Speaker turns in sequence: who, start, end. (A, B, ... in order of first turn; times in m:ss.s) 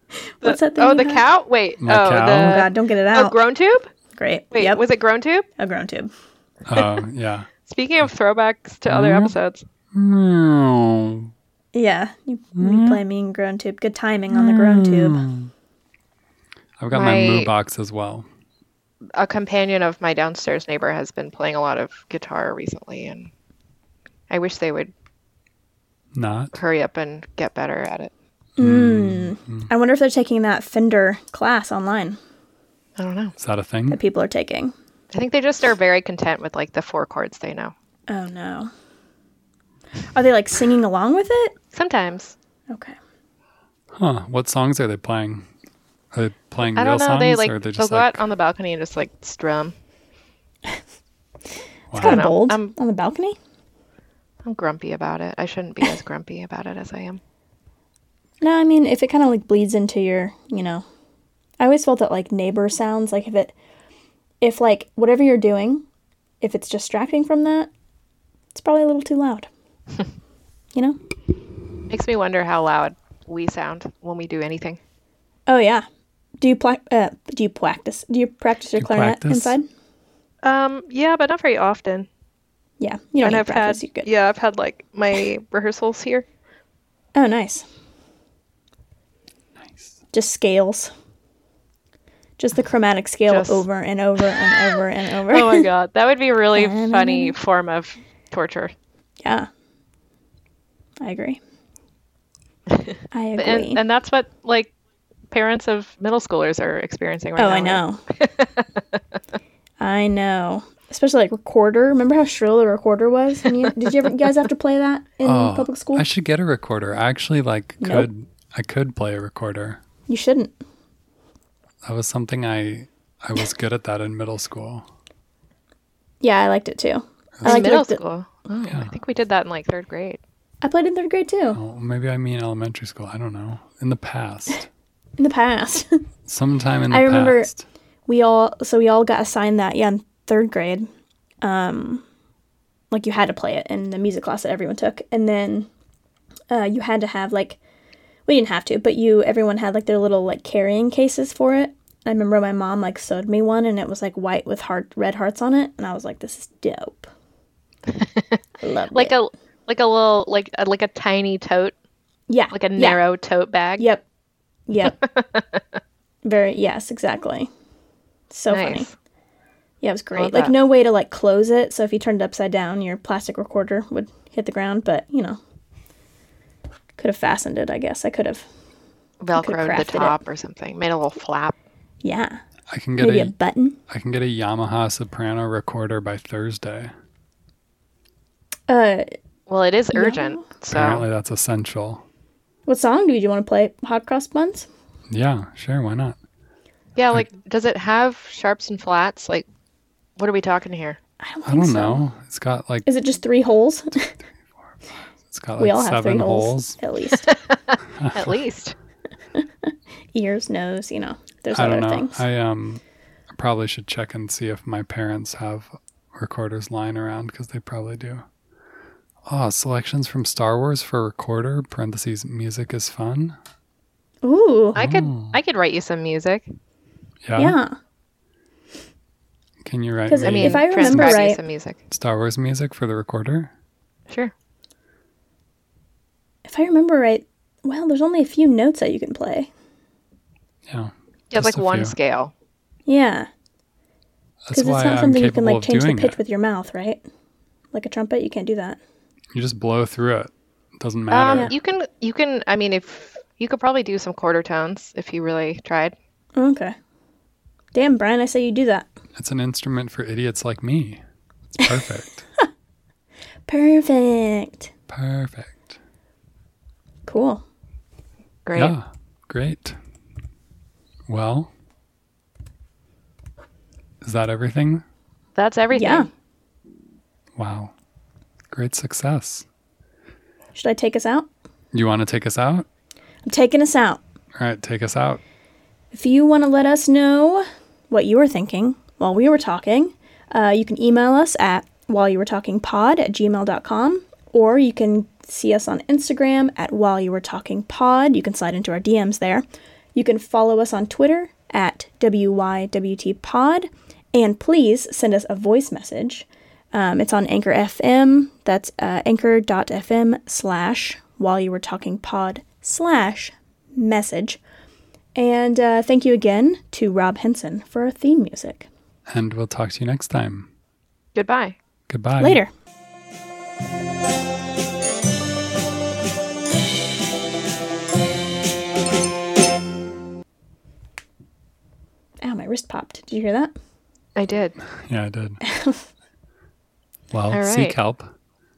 0:00.2-0:01.2 A
0:00.4-0:03.9 B
0:01.8-0:02.6 C
0:02.4-0:03.4 A
0:04.2-0:04.8 A
0:04.5-0:05.4 B
0:05.6-0:06.1 A
0:06.7-0:07.5 C
0:07.6-0:09.6 B
0:08.9-0:09.4 C
0:09.9-0:11.3 C
0:11.7-0:15.2 A
0:12.6-0:13.0 C
0:14.3-0:15.5 C
0:16.8-0:18.2 C
0:16.9-0:17.5 B
0:19.2-0:23.3 B
0:24.3-0:24.9 B
0:26.1-0:26.6 C
0:26.5-0:28.1 B
0:28.6-0:32.2 A
0:28.6-0:29.7 C
0:33.0-0:33.3 B
0:33.4-0:34.0 C
0:33.9-0:34.7 A
0:35.1-0:37.7 B
0:38.1-0:38.7 A
0:40.1-0:41.5 A
0:41.7-0:42.3 B
0:42.7-0:43.0 A
0:43.9-0:45.5 C
0:46.1-0:48.3 C
0:46.7-0:49.7 B
0:51.9-0:52.3 C
0:51.9-0:53.4 A
0:52.0-0:52.8 B
0:54.4-0:57.2 B
0:58.4-1:00.8 A
1:01.6-1:03.5 A
1:04.4-1:05.8 A
1:06.4-1:07.7 A
1:08.5-1:09.5 A
1:11.9-1:14.8 B
1:15.5-1:15.8 A
1:16.4-1:19.6 A
1:18.7-1:19.6 C
1:20.4-1:22.1 B
1:22.8-1:24.1 A
1:23.2-1:26.2 B
1:27.1-1:27.7 A
1:30.1-1:30.9 A
1:32.4-1:35.7 A
1:33.3-1:33.6 B
1:34.2-1:34.6 B
1:35.3-1:38.7 B
1:36.5-1:37.3 A
1:41.0-1:41.4 A
1:42.8-1:44.7 B
1:43.1-1:43.8 A
1:45.3-1:48.6 B
1:47.4-1:48.0 A
1:49.8-1:56.0 A
1:55.2-1:59.8 C
1:57.8-1:58.1 A
2:00.1-2:00.6 A
2:01.8-2:04.8 C
2:06.2-2:08.0 A
2:07.4-2:07.7 C
2:07.4-2:10.2 B
2:08.7-2:08.9 C
2:10.6-2:11.6 A
2:11.5-2:14.7 C
2:15.2-2:16.0 A
2:16.3-2:17.6 C
2:16.9-2:17.5 A
2:18.1-2:20.9 A
2:21.4-2:22.0 A
2:22.9-2:25.7 A
2:26.5-2:27.6 A
2:28.2-2:37.1 A
2:37.9-2:38.2 B
2:38.6-2:39.2 A
2:38.9-2:41.7 B
2:42.3-2:43.0 A
2:42.5-2:43.9 B
2:43.8-2:44.0 A
2:44.7-2:45.0 A
2:45.0-2:45.6 B
2:46.2-2:47.5 A
2:48.3-2:48.9 A
2:48.5-2:48.9 B
2:49.8-2:55.4 A
2:50.1-2:50.5 B
2:57.0-2:58.5 A
2:59.2-3:01.5 B
2:59.3-3:00.2 A
3:02.0-3:02.4 A
3:02.7-3:03.3 C
3:03.0-3:03.8 A
3:03.9-3:06.9 C
3:08.7-3:09.1 A
3:09.5-3:11.0 B
3:09.9-3:10.4 A
3:10.7-3:12.0 C
3:12.6-3:14.7 A
3:15.1-3:16.2 C
3:17.0-3:19.4 B
3:20.2-3:21.0 B
3:21.2-3:22.0 A
3:21.4-3:22.9 C
3:22.8-3:24.1 A
3:25.3-3:26.8 C
3:25.6-3:27.3 A
3:27.3-3:28.7 B
3:28.0-3:28.3 C
3:29.4-3:32.2 A
3:31.5-3:32.8 C
3:33.3-3:38.2 C
3:39.3-3:43.4 C
3:44.2-3:44.8 A
3:44.7-3:46.4 B
3:44.7-3:45.4 C
3:47.2-3:47.6 C
3:47.4-3:47.8 A
3:49.6-3:51.2 C
3:50.1-3:51.4 A
3:50.2-3:51.8 B
3:51.9-3:53.5 C
3:56.4-3:59.5 A
4:00.7-4:01.9 C
4:01.3-4:02.3 B
4:02.9-4:03.3 A
4:04.4-4:06.2 C
4:04.5-4:07.0 A
4:07.7-4:08.8 A
4:09.3-4:11.5 C
4:11.1-4:15.9 B
4:16.4-4:16.7 A
4:17.7-4:18.9 A
4:19.1-4:21.0 C
4:21.6-4:22.2 C
4:23.5-4:24.7 A
4:24.9-4:25.8 C
4:27.1-4:27.4 A
4:28.4-4:28.8 B
4:28.5-4:29.8 C
4:31.1-4:31.5 C
4:34.0-4:34.8 C
4:35.4-4:36.1 B
4:35.7-4:36.1 A
4:37.4-4:37.7 C
4:38.5-4:39.4 C
4:40.5-4:41.3 A
4:41.7-4:42.6 C
4:43.2-4:44.0 A
4:44.4-4:45.2 C
4:45.9-5:14.4 A
5:15.1-5:18.7 A
5:19.1-5:20.5 C
5:21.1-5:21.6 B
5:21.9-5:22.4 C
5:22.2-5:22.5 A
5:32.2-5:33.5 A
5:34.2-5:34.5 B
5:34.8-5:35.4 C
5:35.4-5:35.8 A
5:37.1-5:38.1 C
5:37.3-5:37.8 B